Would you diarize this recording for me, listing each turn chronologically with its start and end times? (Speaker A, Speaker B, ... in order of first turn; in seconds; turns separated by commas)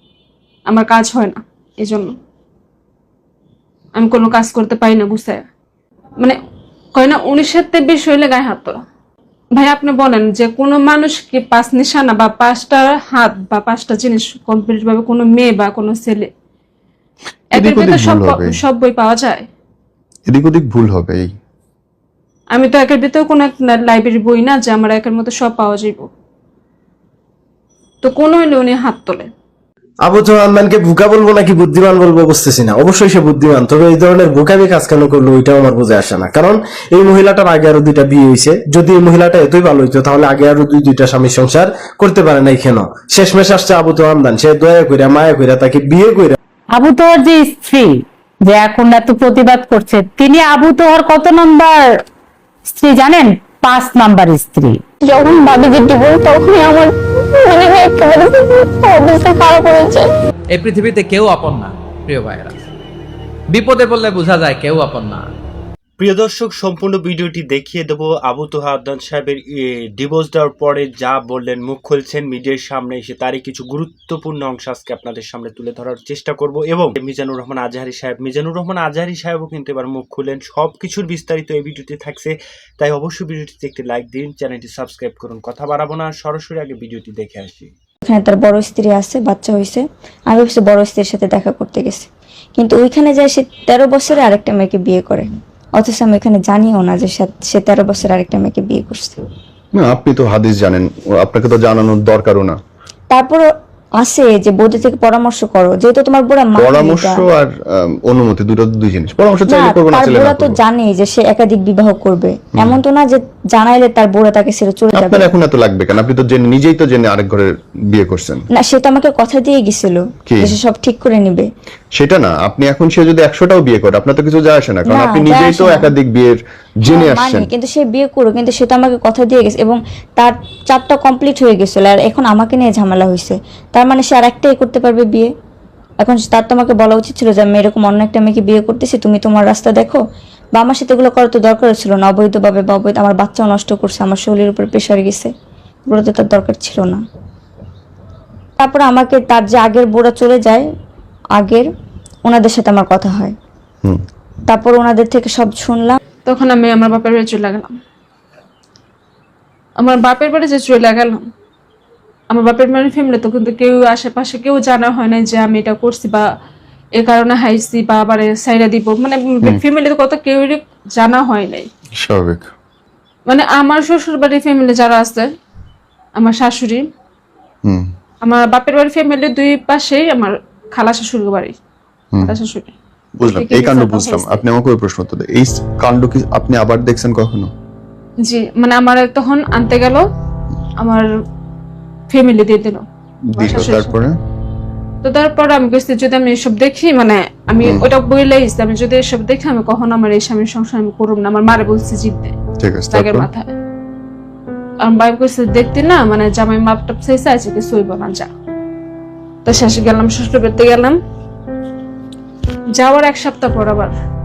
Speaker A: 0.7-2.2, Speaker A: 4.0-5.5, Speaker A: 7.0-8.8, Speaker A: 9.6-16.3, Speaker B: 17.5-18.6, Speaker A: 17.6-19.4, Speaker B: 20.3-21.3, Speaker A: 22.5-26.1, Speaker A: 28.0-29.3, Speaker C: 30.1-46.4, Speaker D: 46.7-51.8, Speaker D: 52.7-54.8, Speaker E: 55.0-60.1, Speaker F: 60.5-62.6, Speaker F: 63.5-65.3, Speaker G: 66.0-87.7, Speaker H: 88.1-99.2, Speaker B: 99.7-102.6, Speaker H: 103.1-103.4, Speaker H: 104.0-107.2, Speaker B: 106.6-110.6, Speaker H: 109.5-115.3, Speaker B: 115.0-118.5, Speaker H: 118.6-121.5, Speaker B: 120.3-120.5, Speaker B: 122.0-127.5, Speaker H: 124.9-125.9, Speaker H: 126.9-135.3, Speaker H: 136.0-140.0, Speaker H: 140.6-145.3, Speaker H: 145.9-147.0, Speaker H: 148.6-150.7, Speaker H: 151.4-151.7, Speaker H: 152.2-153.3, Speaker H: 154.5-156.0, Speaker A: 156.3-157.8, Speaker A: 159.8-161.2, Speaker A: 162.3-166.3, Speaker A: 167.0-171.7, Speaker B: 172.0-172.5, Speaker A: 173.3-175.3, Speaker A: 176.2-176.9, Speaker B: 177.7-177.9, Speaker A: 178.2-181.6, Speaker A: 182.2-182.7, Speaker B: 183.2-187.5, Speaker A: 183.3-184.4, Speaker A: 188.2-190.1, Speaker A: 190.8-191.1, Speaker A: 192.1-192.8, Speaker B: 193.3-194.2, Speaker A: 193.4-194.0, Speaker A: 195.0-202.3, Speaker B: 197.6-197.9, Speaker B: 202.6-203.3, Speaker A: 202.9-203.5, Speaker A: 204.8-208.3, Speaker A: 209.4-211.0, Speaker A: 212.7-213.9